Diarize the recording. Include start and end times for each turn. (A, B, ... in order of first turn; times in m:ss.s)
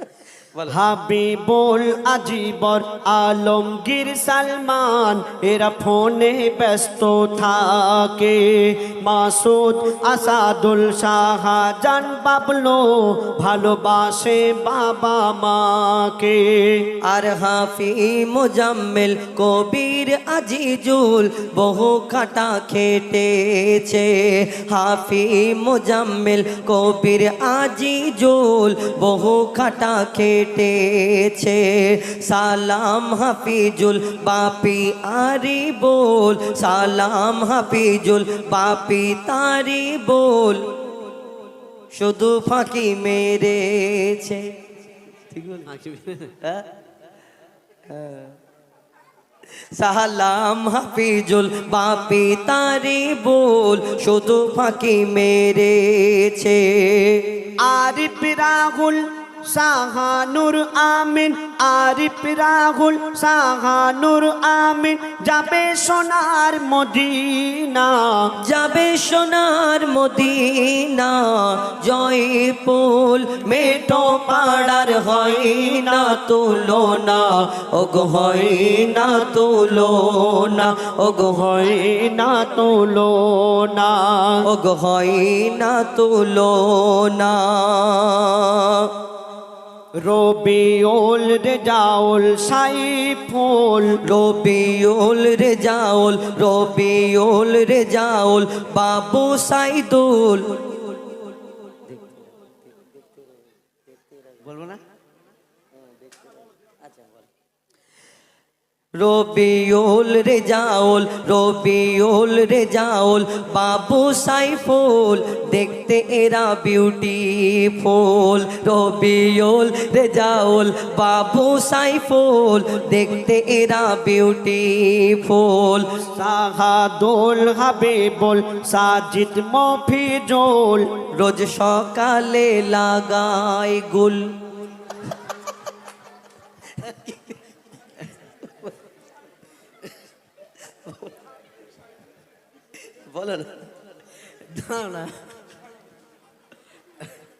0:00.5-0:00.8 A
0:00.7-0:16.8 B
0:17.0-0:40.7 A
0:41.9-0:44.4 A
0:45.3-0:45.7 A
0:45.7-0:46.3 B
0:47.9-0:48.3 A
0:49.7-0:57.2 A
0:57.6-1:08.3 B
1:08.4-1:21.5 A
1:13.6-1:15.8 B
1:18.0-1:18.4 B
1:20.6-1:24.4 B
1:24.4-1:28.9 A
1:30.0-1:34.0 B
1:34.0-1:41.0 A
1:41.9-1:43.2 A
1:44.4-1:44.8 B
1:46.0-1:46.3 A
1:46.8-1:47.2 A
1:49.0-2:05.9 A
2:06.1-2:10.9 B
2:11.1-2:14.4 A
2:16.8-2:17.3 A
2:18.2-2:18.7 A
2:20.8-2:21.1 A
2:23.0-2:23.7 A
2:24.5-2:25.1 B